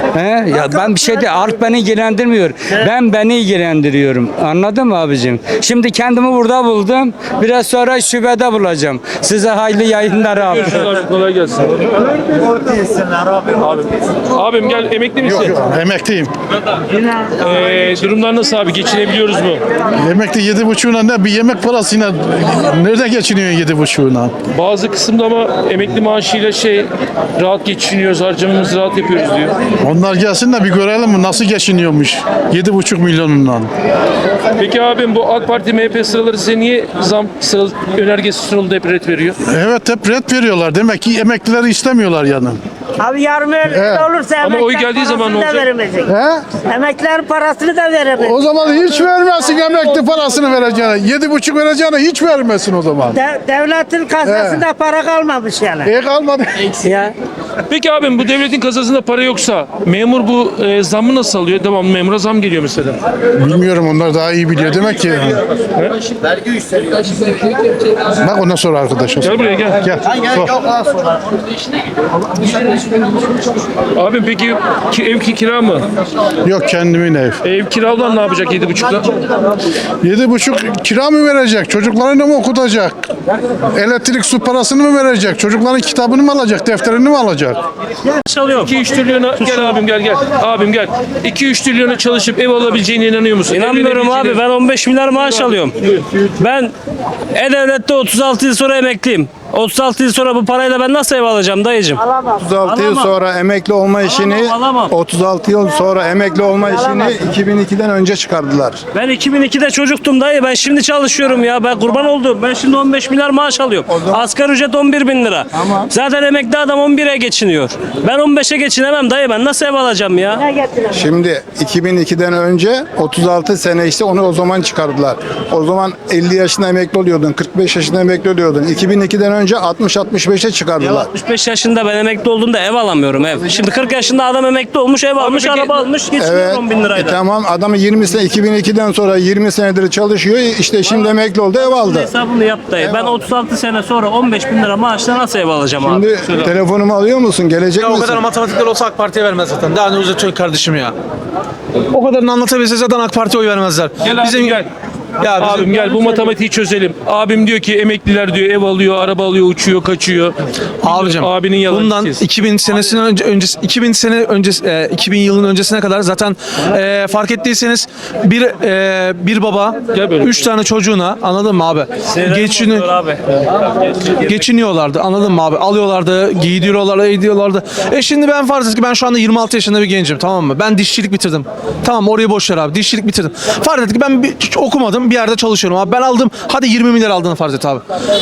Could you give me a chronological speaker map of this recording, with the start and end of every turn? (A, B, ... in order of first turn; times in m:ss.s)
0:00.1-0:10.8 A
0:10.4-0:11.9 B
0:13.6-0:15.6 B
0:15.2-0:16.3 C
0:17.4-0:19.6 B
0:20.0-0:24.3 C
0:24.5-0:29.5 B
0:29.8-0:33.7 C
0:34.6-0:39.4 B
0:39.5-0:42.6 C
0:43.0-0:46.1 D
0:43.7-0:44.1 C
0:44.4-0:45.7 B
0:46.1-0:46.6 C
0:46.6-0:48.4 D
0:48.2-0:53.2 C
0:53.2-0:55.9 D
0:54.2-0:54.6 C
0:55.8-0:56.7 C
0:56.8-0:57.1 D
0:57.7-1:03.0 B
1:03.4-1:05.4 C
1:08.2-1:10.5 C
1:09.2-1:09.8 B
1:14.0-1:15.8 B
1:16.5-1:17.4 C
1:17.4-1:19.2 B
1:20.0-1:23.0 C
1:23.8-1:27.6 C
1:28.3-1:28.7 E
1:28.6-1:34.5 B
1:29.4-1:29.8 E
1:33.5-1:35.7 E
1:35.1-1:35.5 B
1:36.3-1:36.7 E
1:37.3-1:43.1 E
1:42.3-1:48.8 F
1:44.0-1:44.9 E
1:49.0-2:00.4 E
1:53.9-1:54.3 F
2:00.9-2:11.1 F
2:10.8-2:17.2 E
2:15.2-2:15.8 B
2:16.2-2:22.1 F
2:21.6-2:26.1 E
2:22.8-2:23.2 F
2:25.8-2:28.3 F
2:27.8-2:30.9 G
2:31.9-2:34.6 G
2:34.0-2:34.7 B
2:35.2-2:35.7 G
2:35.4-2:42.2 B
2:40.8-2:52.9 G
2:49.9-2:50.4 B
2:52.1-2:53.2 E
2:54.2-3:07.8 G